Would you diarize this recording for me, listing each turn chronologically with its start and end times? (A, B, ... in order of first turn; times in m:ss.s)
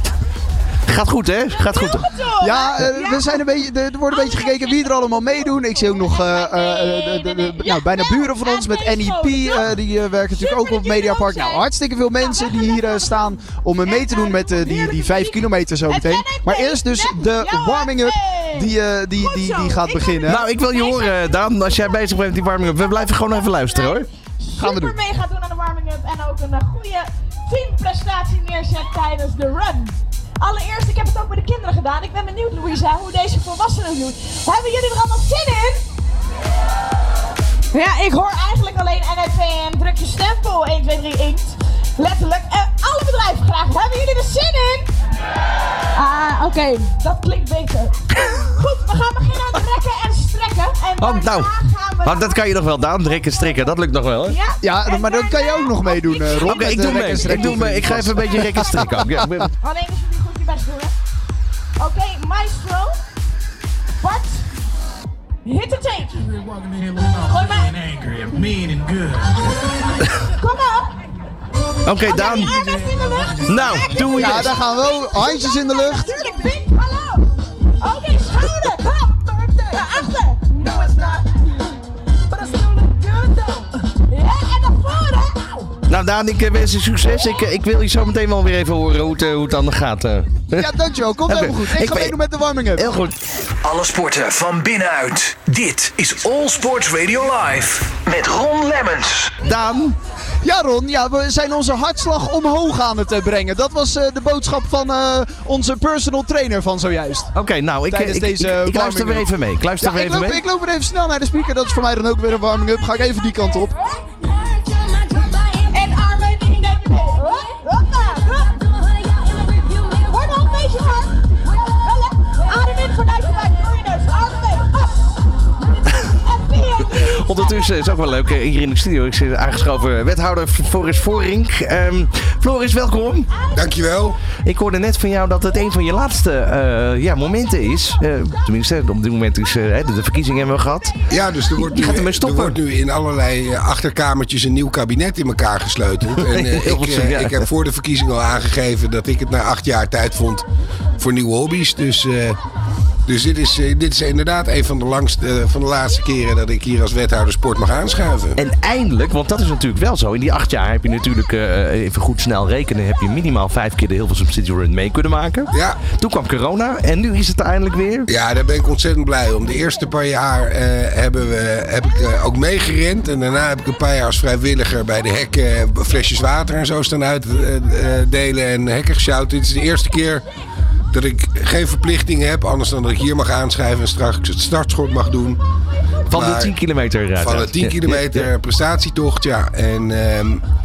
0:00.9-0:02.1 A
0:01.5-0:03.5 B
0:02.4-0:20.4 C
0:04.1-0:09.7 B
0:10.3-0:13.3 B
0:13.8-0:35.8 B
0:20.3-0:24.1 A
0:24.6-0:25.0 C
0:37.7-0:44.9 B
0:46.0-0:52.5 B
0:51.0-0:54.4 A
0:53.0-0:53.7 B
0:54.2-1:00.9 B
0:54.6-0:58.8 C
0:56.4-0:59.5 A
1:01.8-1:03.0 B
1:04.0-1:04.4 B
1:05.4-1:06.3 B
1:07.1-1:08.7 B
1:10.2-1:11.0 B
1:11.8-1:12.6 A
1:12.0-1:21.7 B
1:13.4-1:14.6 A
1:14.1-1:16.2 C
1:22.3-1:25.8 B
1:25.9-1:32.2 A
1:30.5-1:32.9 C
1:32.7-1:33.2 A
1:33.6-1:39.3 D
1:39.4-1:40.0 A
1:40.4-1:47.3 C
1:47.3-1:50.4 A
1:47.9-1:49.3 C
1:49.8-1:53.8 C
1:55.2-2:05.1 B
2:05.9-2:07.6 B
2:07.0-2:13.3 A
2:13.5-2:14.2 E
2:14.4-2:21.0 A
2:21.1-2:30.4 E
2:21.6-2:22.6 A
2:26.2-2:27.5 A
2:31.0-2:32.4 E
2:33.1-2:38.4 E
2:38.4-2:48.1 A
2:45.5-2:45.8 E
2:48.1-3:00.2 E
3:00.9-3:05.4 E
3:06.1-3:08.3 A
3:06.1-3:06.5 E
3:07.2-3:10.4 E